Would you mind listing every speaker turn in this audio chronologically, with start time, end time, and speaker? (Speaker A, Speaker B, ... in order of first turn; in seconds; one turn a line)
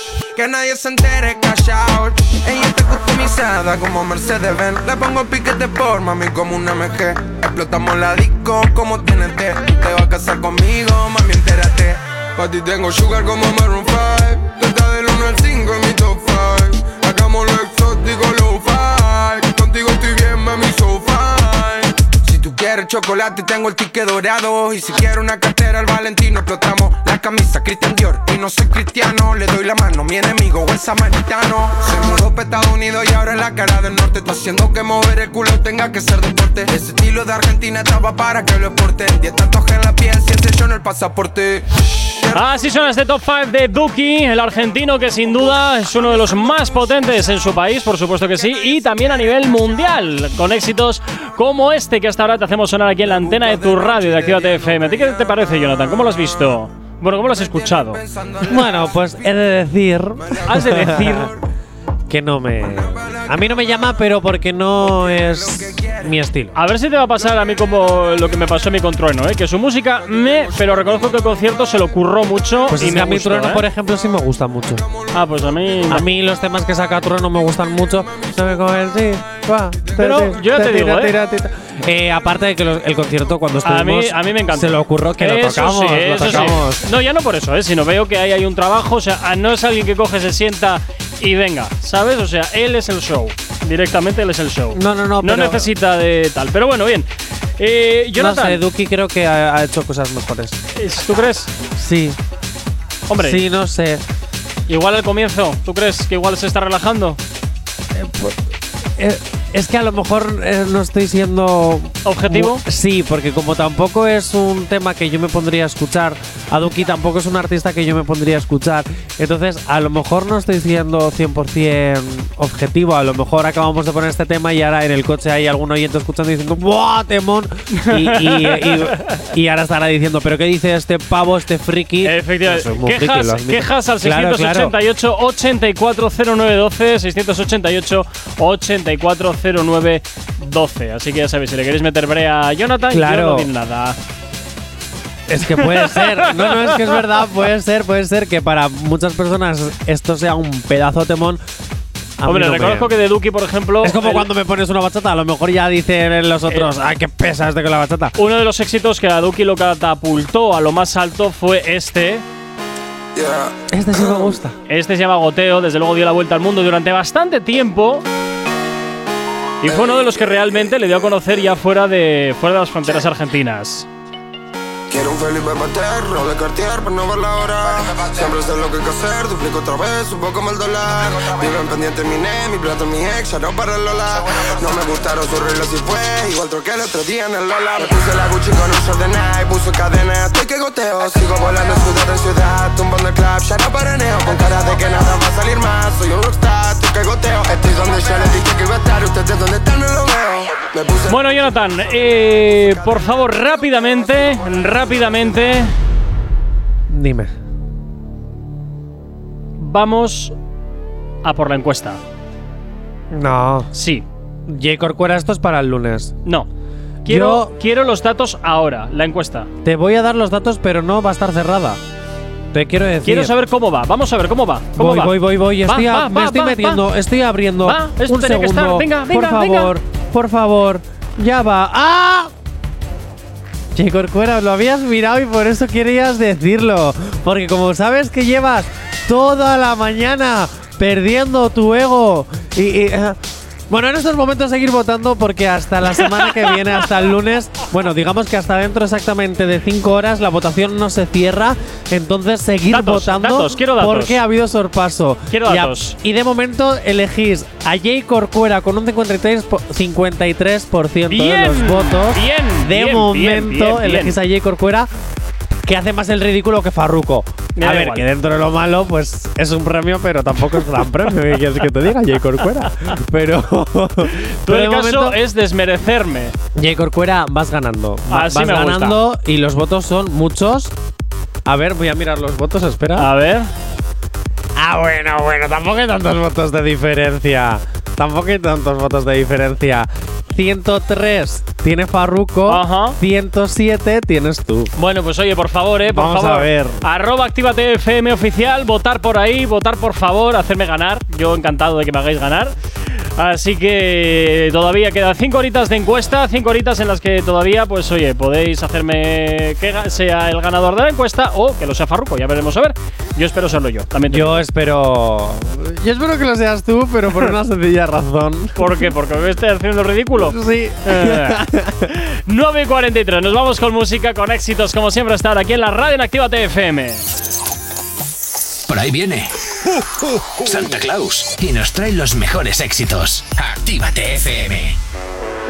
Speaker A: 0.3-42.5
Speaker B: 42.3-58.0
Speaker A: 53.1-55.0
Speaker A: 57.9-58.8
Speaker C: 58.5-61.3
Speaker B: 60.5-61.3
Speaker C: 62.1-66.5
Speaker A: 65.4-65.9
Speaker B: 66.5-73.6
Speaker C: 72.7-74.8
Speaker B: 75.1-76.0
Speaker C: 75.9-86.8
Speaker B: 80.0-81.1
Speaker B: 83.7-98.6
Speaker C: 94.7-95.7
Speaker C: 98.2-100.6
Speaker B: 100.8-101.5
Speaker C: 101.8-102.2
Speaker B: 103.1-103.4
Speaker C: 103.2-104.0
Speaker B: 104.7-107.2
Speaker C: 107.9-108.3
Speaker C: 109.0-134.7
Speaker B: 112.0-112.6
Speaker B: 127.7-128.7
Speaker B: 132.0-144.0
Speaker C: 142.9-143.5
Speaker C: 145.3-151.4
Speaker B: 145.6-146.8
Speaker C: 152.2-152.9
Speaker B: 152.2-154.3
Speaker C: 153.8-158.1
Speaker B: 158.2-162.2
Speaker A: 163.1-164.3
Speaker C: 163.7-164.5
Speaker B: 164.7-168.0
Speaker B: 169.6-173.8
Speaker A: 174.9-201.2
Speaker B: 201.1-205.7
Speaker C: 206.9-207.3
Speaker B: 209.6-210.3
Speaker B: 211.2-212.0
Speaker C: 213.1-213.7
Speaker B: 213.7-214.0
Speaker C: 214.5-216.1
Speaker B: 217.0-219.5
Speaker C: 217.1-217.5
Speaker C: 219.6-221.8
Speaker C: 222.5-223.3
Speaker B: 223.0-226.8
Speaker C: 224.8-232.3
Speaker B: 227.6-229.7
Speaker C: 233.8-243.2
Speaker C: 243.7-264.9
Speaker B: 246.2-246.5
Speaker B: 252.7-254.2
Speaker B: 255.3-255.9
Speaker B: 261.1-264.1
Speaker C: 265.6-275.1
Speaker B: 267.6-268.1
Speaker B: 274.4-276.3
Speaker C: 276.5-280.7
Speaker B: 278.1-279.0
Speaker C: 281.4-283.1
Speaker B: 283.0-283.5
Speaker C: 284.6-294.7
Speaker B: 292.5-292.9
Speaker B: 294.8-302.5
Speaker C: 295.9-296.8
Speaker B: 303.2-314.4
Speaker C: 314.1-318.9
Speaker B: 318.6-321.4
Speaker C: 320.2-321.7
Speaker B: 322.3-327.0
Speaker D: 328.7-329.3
Speaker D: 330.3-334.8